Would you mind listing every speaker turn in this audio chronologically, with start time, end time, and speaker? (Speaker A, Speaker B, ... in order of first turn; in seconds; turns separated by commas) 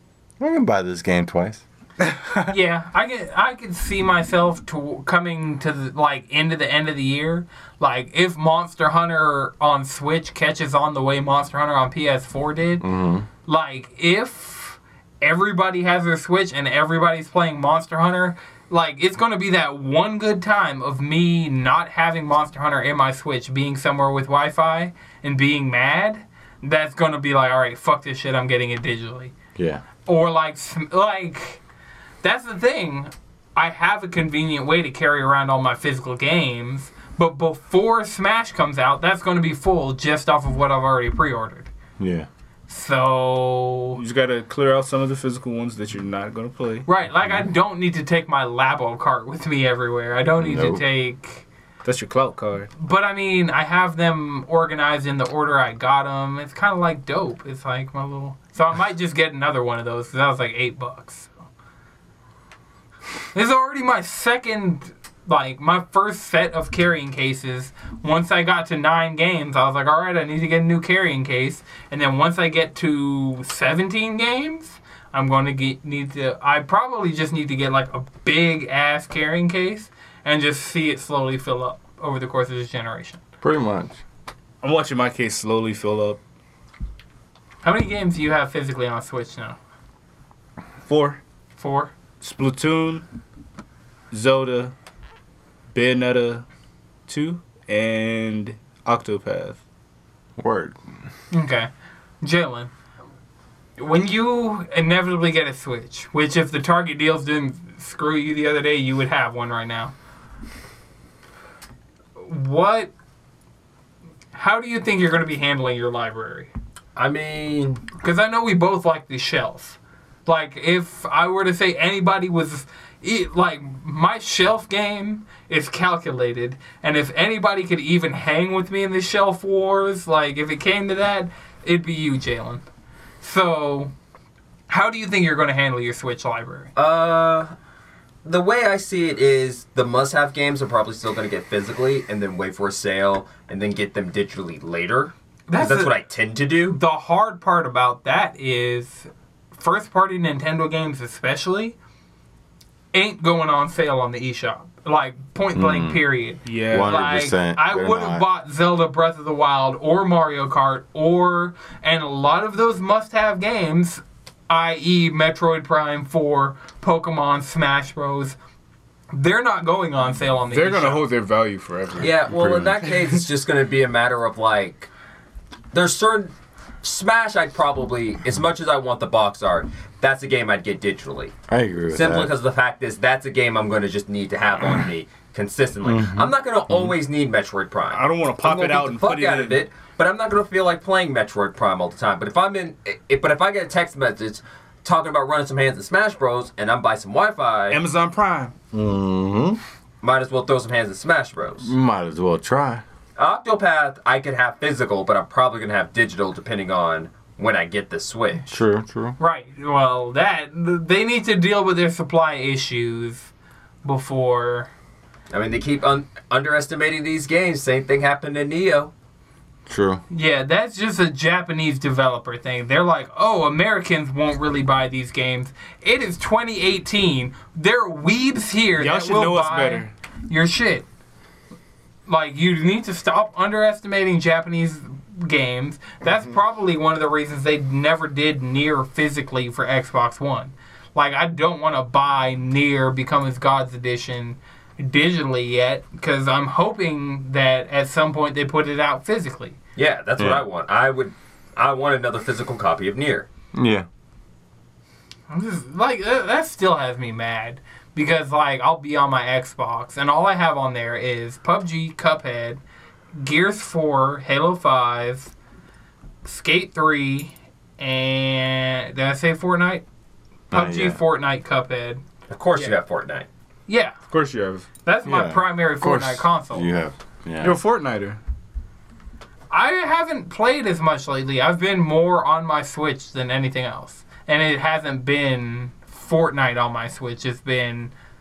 Speaker A: 0.4-1.6, Speaker B: 2.5-12.8, Speaker A: 12.8-13.3, Speaker B: 13.4-29.3, Speaker A: 29.6-29.8, Speaker B: 30.1-31.6, Speaker B: 32.2-41.7, Speaker A: 42.0-42.3, Speaker B: 42.7-44.0, Speaker C: 44.0-46.9, Speaker B: 46.9-51.5, Speaker A: 47.2-47.5, Speaker A: 50.4-50.8, Speaker C: 51.8-52.7, Speaker B: 52.8-61.3, Speaker B: 63.3-83.2, Speaker A: 83.4-84.0, Speaker C: 84.6-86.2, Speaker B: 87.6-89.6, Speaker C: 90.8-91.2, Speaker B: 91.6-91.9, Speaker C: 92.2-93.0, Speaker C: 94.1-94.7, Speaker C: 95.7-96.4, Speaker C: 97.1-99.6, Speaker A: 100.4-100.8, Speaker B: 101.3-101.7, Speaker B: 102.2-102.7, Speaker B: 103.8-109.9, Speaker B: 112.2-112.9, Speaker B: 114.3-116.5, Speaker D: 117.0-117.8, Speaker B: 118.0-132.6, Speaker B: 133.2-133.9, Speaker B: 134.7-136.7, Speaker D: 136.8-137.5, Speaker D: 138.2-146.8, Speaker B: 145.5-145.9, Speaker B: 146.7-151.8, Speaker B: 152.9-168.3, Speaker A: 155.5-156.1, Speaker C: 156.4-157.0, Speaker A: 156.7-158.3, Speaker B: 169.1-171.0, Speaker C: 170.5-172.1, Speaker D: 172.0-174.9, Speaker A: 172.4-172.7, Speaker D: 175.7-181.3, Speaker A: 181.5-182.3, Speaker D: 181.9-197.8, Speaker A: 185.8-186.9, Speaker C: 187.9-189.6, Speaker C: 197.7-198.5, Speaker A: 198.7-199.6, Speaker D: 200.0-201.7, Speaker A: 201.6-202.8, Speaker D: 203.2-208.5, Speaker A: 208.5-209.2, Speaker B: 209.2-213.3, Speaker B: 213.8-214.7, Speaker D: 215.3-218.9, Speaker A: 219.7-220.0, Speaker B: 220.1-230.9, Speaker C: 228.8-229.9, Speaker B: 232.1-249.6, Speaker D: 249.8-253.3, Speaker A: 250.2-250.4, Speaker A: 253.5-253.9, Speaker B: 255.3-262.6, Speaker B: 263.1-265.3, Speaker B: 266.2-269.8, Speaker A: 270.5-271.0, Speaker B: 270.5-272.0, Speaker D: 272.3-273.3, Speaker B: 273.7-273.9, Speaker C: 274.1-274.6, Speaker B: 274.8-276.7, Speaker A: 275.0-277.6, Speaker C: 277.4-278.2, Speaker B: 279.5-287.9